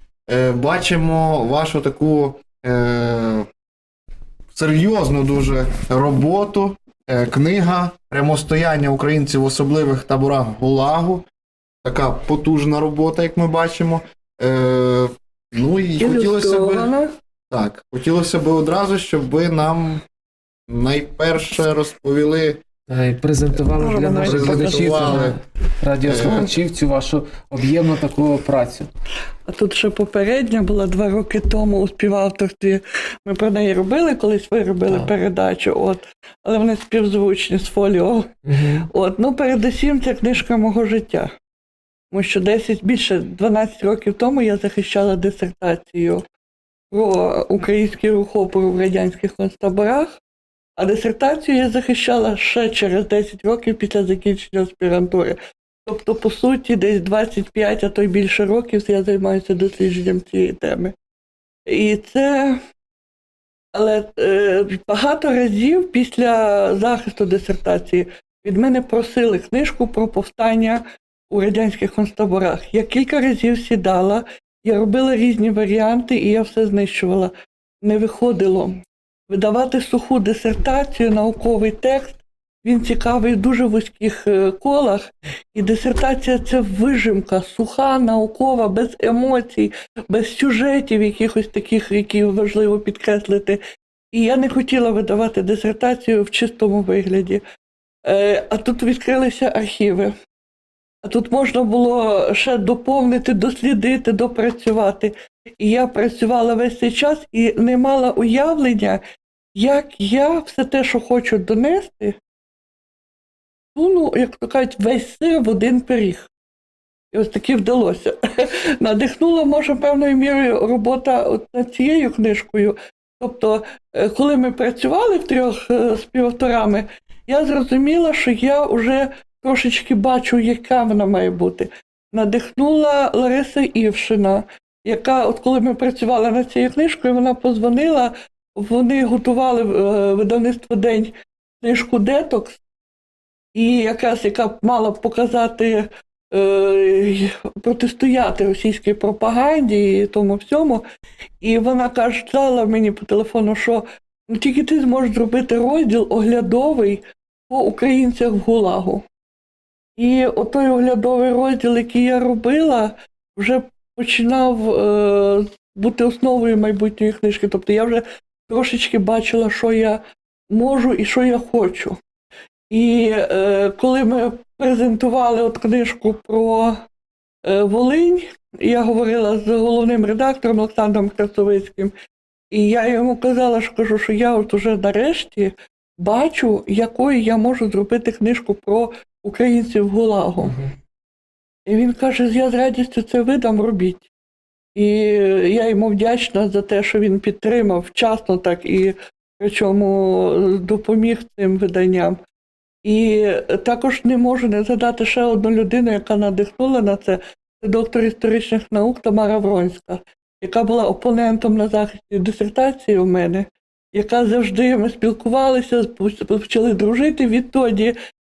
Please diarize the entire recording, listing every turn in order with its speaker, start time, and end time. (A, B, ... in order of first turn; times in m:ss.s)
0:00.3-0:03.5 A
0:04.5-0:11.2 A
0:11.8-0:16.9 A
0:16.0-0:17.1 B
0:17.5-0:20.0 A
0:20.7-0:22.6 A
0:22.9-0:28.9 C
0:23.7-0:25.3 B
0:24.2-0:25.4 A
0:26.0-0:26.5 A
0:29.5-0:41.3 B
0:38.4-0:38.8 C
0:42.1-0:46.2 B
0:46.9-0:50.2 B
0:50.8-1:00.9 B
1:01.7-1:02.6 B
1:03.7-1:33.6 B
1:34.1-1:37.4 B
1:38.0-1:40.1 B
1:41.0-1:49.0 B
1:49.5-1:52.2 B
1:53.7-1:56.3 B
1:57.1-2:22.6 B
2:23.5-2:30.8 B
2:31.4-2:39.0 B
2:40.0-2:52.0 B
2:52.7-2:56.8 B
2:57.4-3:01.9 B
3:02.5-3:10.5 B
3:10.4-3:10.7 C
3:11.7-3:14.1 B
3:14.7-3:22.2 B
3:22.8-3:37.9 B